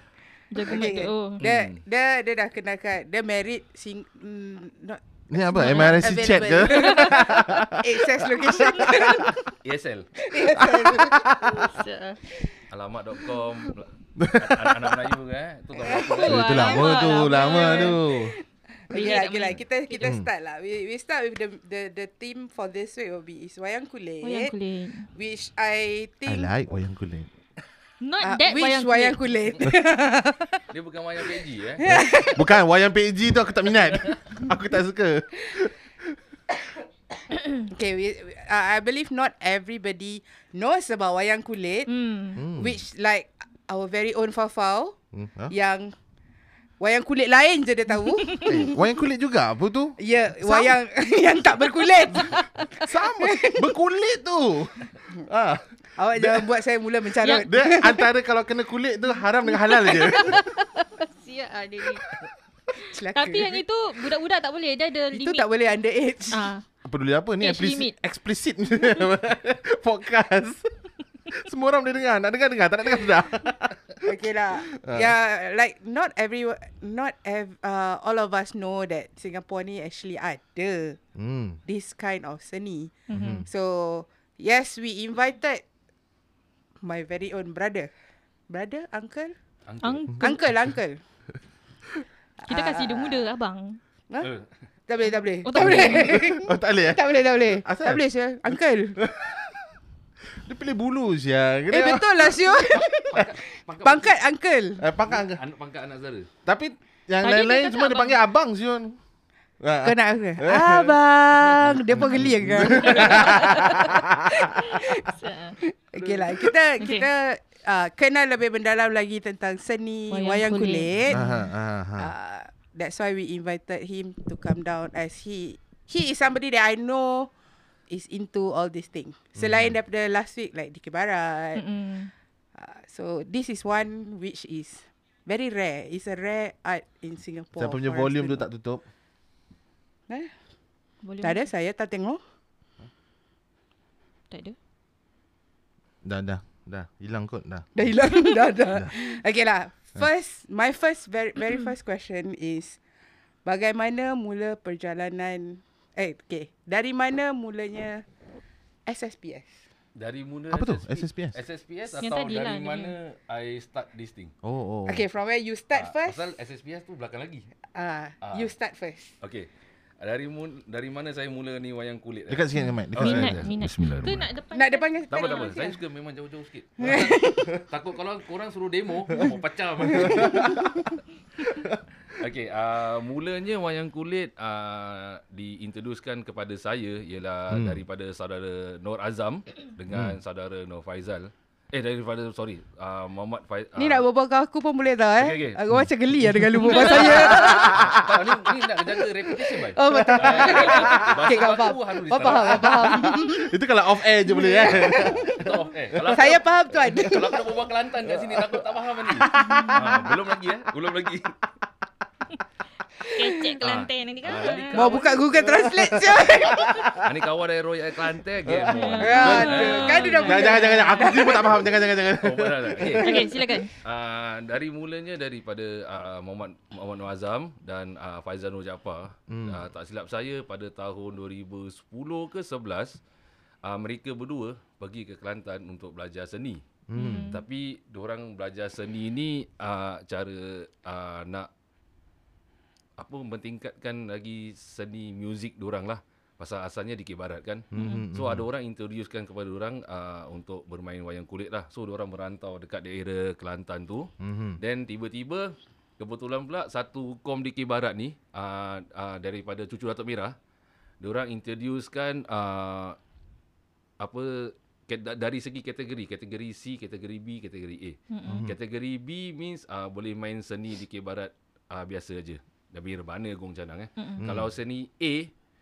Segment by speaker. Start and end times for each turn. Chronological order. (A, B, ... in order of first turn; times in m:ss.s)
0:00.5-0:01.4 A
0:00.6-0:09.4 B
0:01.4-0:01.8 C
0:05.3-0:09.2 D
0:05.6-0:07.2 A
0:08.5-0:09.0 A
0:09.6-0:10.1 C
0:10.2-0:11.6 B
0:10.5-0:11.7 D
0:11.5-0:12.2 A
0:12.7-0:16.6 C
0:14.2-0:15.0 D
0:15.7-0:24.5 B
0:15.9-0:18.0 A
0:16.2-0:18.4 D
0:18.9-0:20.1 A
0:20.0-0:20.3 D
0:24.2-0:25.1 A
0:25.1-0:26.5 B
0:26.3-0:27.3 D
0:28.0-0:29.2 A
0:28.2-0:30.6 B
0:30.7-0:32.0 C
0:31.8-0:32.5 B
0:31.8-0:36.2 D
0:37.7-0:45.0 B
0:41.9-0:42.4 A
0:42.4-0:42.8 D
0:45.1-0:45.5 D
0:45.5-0:46.0 B
0:46.8-0:48.8 B
0:48.4-0:50.7 D
0:50.0-0:53.7 B
0:52.8-0:56.5 D
0:56.0-0:58.0 B
0:57.5-1:00.4 D
0:59.7-1:02.1 A
1:02.8-1:05.5 A
1:02.8-1:03.6 B
1:05.1-1:06.5 B
1:06.3-1:06.6 A
1:06.8-1:10.7 D
1:07.4-1:07.9 A
1:11.3-1:14.1 D
1:14.0-1:21.0 B
1:14.6-1:15.1 D
1:21.2-1:21.6 D
1:21.7-1:22.9 B
1:23.1-1:23.4 A
1:23.1-1:23.5 D
1:23.4-1:25.6 B
1:26.8-1:27.9 B
1:28.5-1:29.4 B
1:29.7-1:30.1 C
1:29.8-1:30.5 A
1:30.2-1:31.0 B
1:32.4-1:33.3 B
1:32.5-1:33.8 A
1:34.2-1:34.5 C
1:34.9-1:39.0 B
1:35.4-1:36.2 A
1:35.6-1:39.6 D
1:40.3-1:42.8 D
1:41.7-1:44.8 B
1:43.1-1:44.1 C
1:44.8-1:45.4 D
1:45.0-1:46.3 C
1:46.5-1:49.0 D
1:47.2-1:48.2 A
1:49.6-1:50.9 D
1:49.8-2:01.2 B
1:51.4-1:54.7 D
1:53.0-1:53.4 A
1:54.7-1:55.6 A
1:56.0-1:56.3 C
1:56.8-1:57.1 A
2:00.1-2:01.2 A
2:01.1-2:02.1 D
2:02.0-2:07.3 B
2:07.9-2:11.6 B
2:09.4-2:09.7 D
2:11.6-2:12.1 A
2:12.6-2:18.4 B
2:17.6-2:18.8 D
2:21.0-2:21.4 A
2:21.2-2:22.2 B
2:24.3-2:24.6 A
2:26.0-2:27.7 D
2:27.8-2:32.8 B
2:28.2-2:29.2 A
2:33.4-2:38.0 B
2:38.9-2:39.6 B
2:40.0-2:44.3 C
2:40.5-2:41.4 D
2:42.0-2:42.9 A
2:44.4-2:45.1 D
2:44.9-2:46.3 B
2:45.7-2:47.5 C
2:47.7-2:49.2 B
2:48.2-2:48.5 C
2:49.2-2:49.5 C
2:50.0-2:54.3 C
2:52.3-2:53.4 D
2:52.6-2:55.6 A
2:54.5-2:55.8 B
2:55.1-3:00.6 C
2:56.8-2:57.6 B
2:59.9-3:00.5 B
3:00.0-3:00.7 D
3:02.1-3:14.0 C
3:07.5-3:07.8 D
3:09.9-3:10.2 D
3:13.8-3:17.9 B
3:15.2-3:15.6 C
3:15.7-3:16.7 D
3:16.7-3:23.0 C
3:16.8-3:17.2 A
3:17.3-3:18.1 D
3:19.4-3:23.6 B
3:19.8-3:21.3 D
3:22.5-3:25.4 D
3:24.2-3:27.5 B
3:24.7-3:31.3 C
3:28.1-3:30.2 D
3:29.4-3:29.7 A
3:33.0-3:35.2 A
3:33.6-3:35.2 C
3:34.7-3:36.9 B
3:35.4-3:37.1 D
3:37.0-3:40.4 C
3:38.5-3:39.6 D
3:38.8-3:41.3 A
3:39.0-3:41.8 B
3:40.2-3:43.0 D
3:42.2-3:43.1 C
3:43.0-3:43.7 A
3:43.0-3:43.4 B
3:43.8-3:53.0 C
3:49.3-3:49.6 D
3:53.6-3:56.6 C
3:56.9-3:57.4 D
3:57.0-3:57.4 A
3:57.3-4:01.5 C
4:03.0-4:20.4 C
4:07.7-4:08.5 D
4:07.7-4:08.1 A
4:14.2-4:14.6 D
4:21.0-4:23.0 C
4:24.0-4:35.3 C
4:28.1-4:28.5 A
4:28.3-4:28.6 D
4:34.0-4:34.2 A
4:34.2-4:34.5 D